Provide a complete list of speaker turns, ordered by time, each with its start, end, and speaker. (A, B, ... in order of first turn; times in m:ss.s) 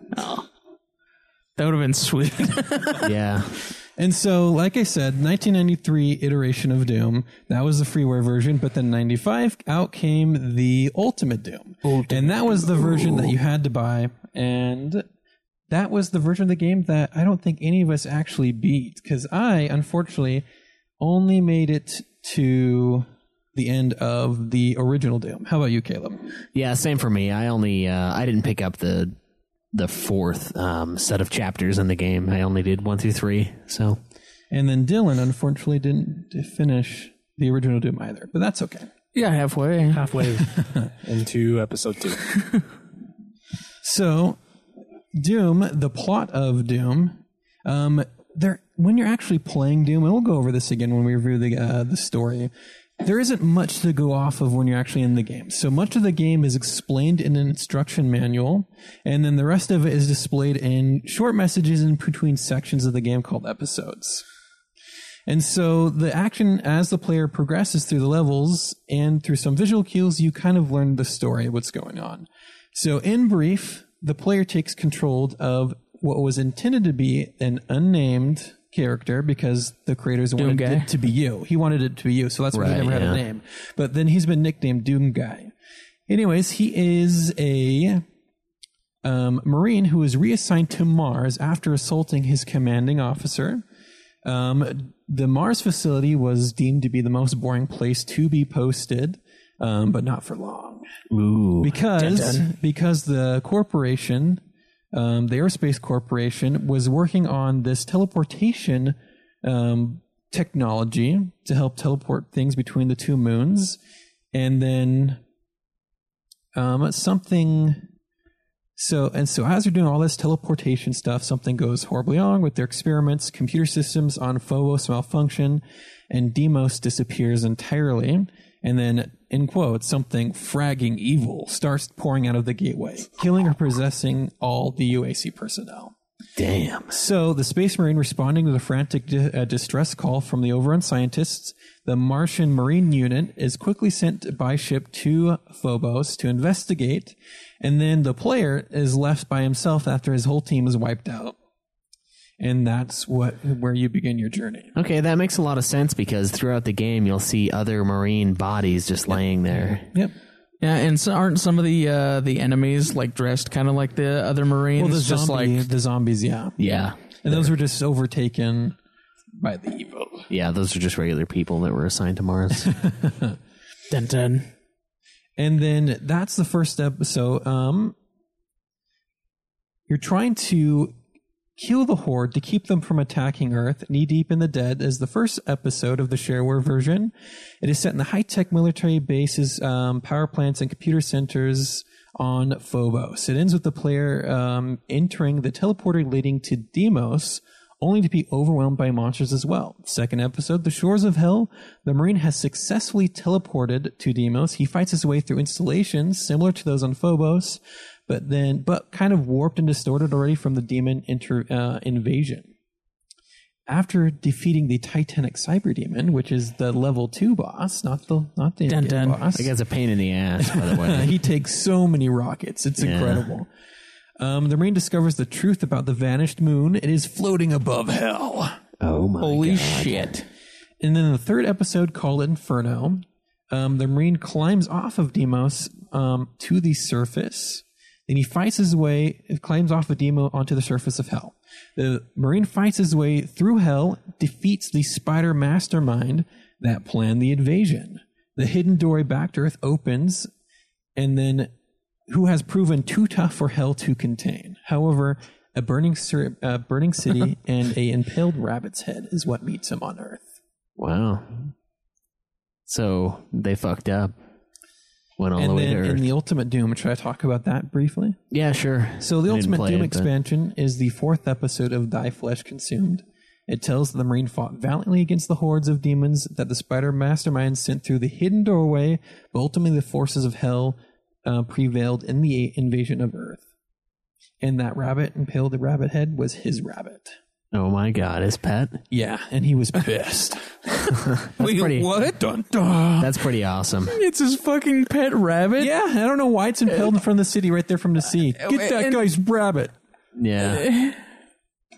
0:00.1-0:00.4 A
0:01.6-0:03.1 A
0:03.0-0:03.5 B
0:04.0-0:15.0 C
0:15.7-0:20.4 C
0:21.0-0:26.3 C
0:26.5-0:29.2 B
0:29.7-0:34.0 B
0:34.5-0:38.9 C
0:39.1-0:40.1 A
0:39.9-0:42.4 D
0:43.8-0:44.4 C
0:45.1-0:52.5 C
0:53.0-1:04.2 C
1:05.3-1:25.5 C
1:20.4-1:20.9 A
1:22.5-1:23.2 B
1:26.1-1:28.0 C
1:29.0-1:33.6 C
1:34.2-1:40.9 C
1:41.1-1:42.4 B
1:41.6-1:44.4 C
1:42.0-1:42.4 A
1:44.9-1:53.8 C
1:54.3-1:55.2 C
1:56.5-1:57.9 C
1:58.8-2:15.9 C
2:16.4-2:16.9 B
2:16.9-2:31.4 C
2:32.4-2:34.7 C
2:34.7-2:39.9 B
2:40.6-2:45.7 A
2:44.8-2:46.6 C
2:46.6-2:47.5 B
2:47.2-2:48.8 C
2:49.4-2:50.3 C
2:50.3-2:52.8 B
2:52.6-2:53.4 C
2:53.9-2:54.5 A
2:55.4-2:58.0 C
2:59.9-3:00.9 C
3:01.6-3:32.5 C
3:33.7-3:39.5 C
3:38.7-3:39.2 A
3:39.4-3:41.1 B
3:40.4-3:43.5 C
3:42.8-3:43.3 B
3:44.2-3:48.6 C
3:48.8-3:50.1 B
3:49.2-3:50.2 A
3:50.8-4:10.3 C
4:11.0-4:11.5 C
4:12.1-4:20.3 C
4:20.8-4:21.5 B
4:22.7-4:24.1 B
4:25.2-4:26.0 B
4:25.4-4:28.2 C
4:28.3-4:30.1 B
4:29.0-4:43.4 C
4:44.4-4:47.1 C
4:47.5-4:48.8 B
4:48.9-4:53.1 C
4:51.2-4:51.9 B
4:53.0-4:53.9 B
4:53.9-4:55.7 A
4:55.6-4:59.7 C
4:58.4-4:59.0 A
5:00.2-5:00.7 B
5:00.4-5:01.0 A